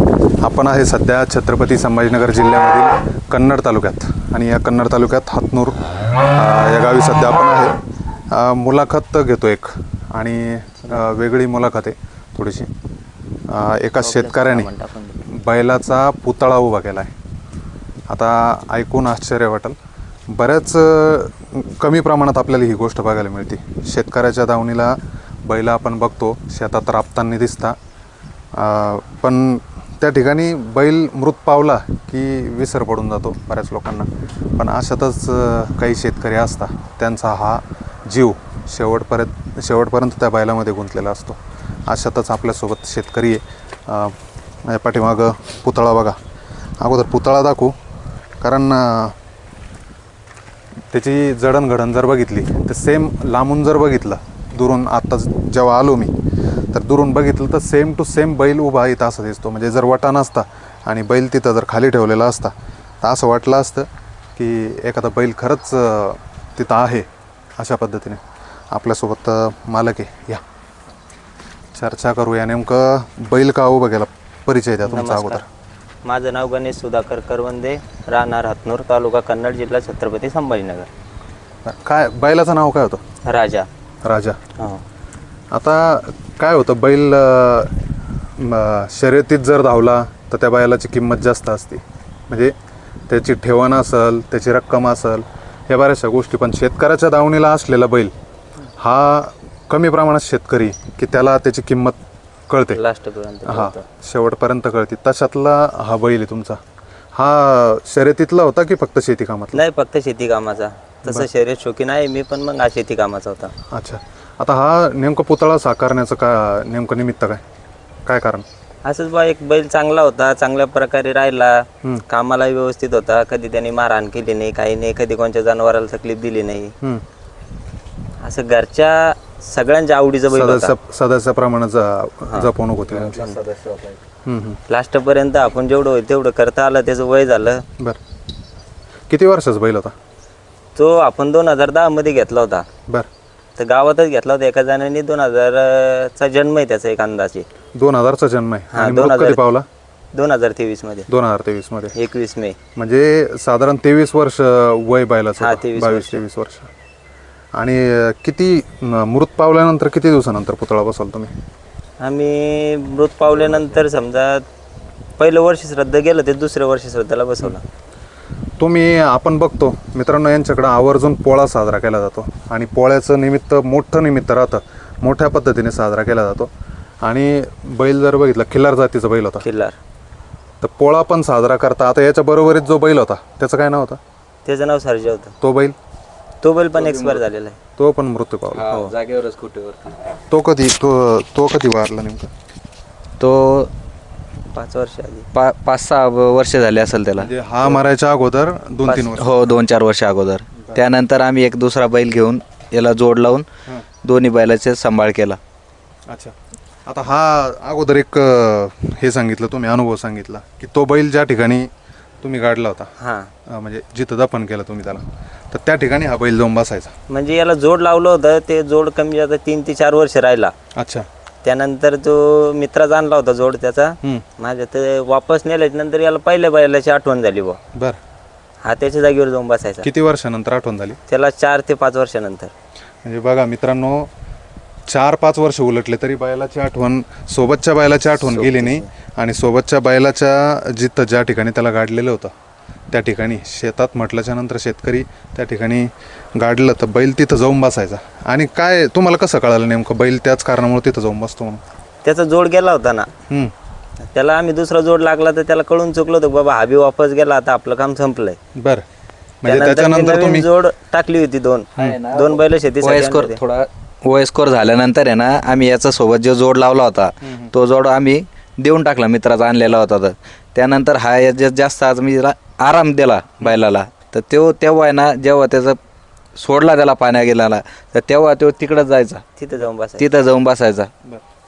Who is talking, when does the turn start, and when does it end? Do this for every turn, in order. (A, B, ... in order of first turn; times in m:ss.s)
0:00.4-0:05.8 A
0:06.3-0:07.8 A
0:08.3-0:12.7 A
0:13.5-0:14.7 A
0:14.0-0:15.2 B
0:15.3-0:17.1 A
0:18.1-0:19.8 A
0:20.3-0:27.8 A
0:28.5-0:44.1 A
0:44.7-0:46.2 A
0:46.8-0:47.7 A
0:48.4-0:49.1 A
0:50.9-0:56.1 A
0:56.7-1:07.1 A
1:07.6-1:10.4 A
1:11.7-1:15.4 A
1:14.8-1:15.4 B
1:16.0-1:20.9 B
1:21.6-1:23.0 A
1:23.2-1:23.7 B
1:24.0-1:24.4 A
1:25.5-1:27.8 A
1:28.4-1:32.5 A
1:33.1-1:38.1 A
1:38.8-1:42.8 A
1:42.7-1:43.8 B
1:43.4-1:46.6 A
1:47.1-1:49.6 A
1:49.5-1:53.5 B
1:53.7-1:57.4 A
1:58.0-1:58.4 A
1:58.8-2:06.7 B
2:08.2-2:10.7 B
2:10.3-2:13.3 A
2:12.9-2:14.0 C
2:14.2-2:14.6 A
2:14.7-2:17.6 B
2:19.1-2:19.9 A
2:20.8-2:22.6 B
2:23.6-2:27.5 B
2:27.8-2:29.6 A
2:28.7-2:29.4 B
2:30.1-2:31.1 B
2:31.1-2:31.9 A
2:31.9-2:32.6 B
2:32.7-2:36.7 A
2:35.4-2:36.2 B
2:37.5-2:41.3 A
2:42.0-2:44.4 B
2:45.2-2:47.6 B
2:48.6-2:56.5 A
2:57.0-2:59.4 A
2:59.4-2:59.8 B
3:00.6-3:04.0 A
3:04.4-3:05.3 B
3:05.4-3:05.7 A
3:06.4-3:07.6 B
3:06.7-3:07.2 C
3:07.8-3:08.7 A
3:08.5-3:10.0 C
3:10.3-3:12.3 A
3:13.2-3:13.7 C
3:14.5-3:15.3 B
3:15.3-3:17.8 C
3:17.2-3:19.4 A
3:18.8-3:23.4 C
3:24.0-3:25.4 C
3:26.1-3:26.3 A
3:26.8-3:31.7 A
3:32.2-3:32.9 A
3:33.0-3:33.3 B
3:33.5-3:36.9 A
3:37.1-3:40.5 B
3:40.8-3:41.0 A
3:41.4-3:47.6 B
3:48.6-3:49.9 B
3:49.8-3:51.0 A
3:51.1-3:52.5 B
3:53.0-3:54.1 A
3:54.9-4:02.3 A
3:58.2-3:58.9 B
4:02.9-4:11.6 A
4:12.0-4:13.1 B
4:14.1-4:18.4 B
4:18.6-4:18.8 A
4:19.4-4:20.5 A
4:19.4-4:23.4 B
4:21.8-4:35.8 C
4:27.2-4:27.5 A
4:36.4-4:39.2 C
4:39.4-4:40.1 B
4:40.0-4:40.9 C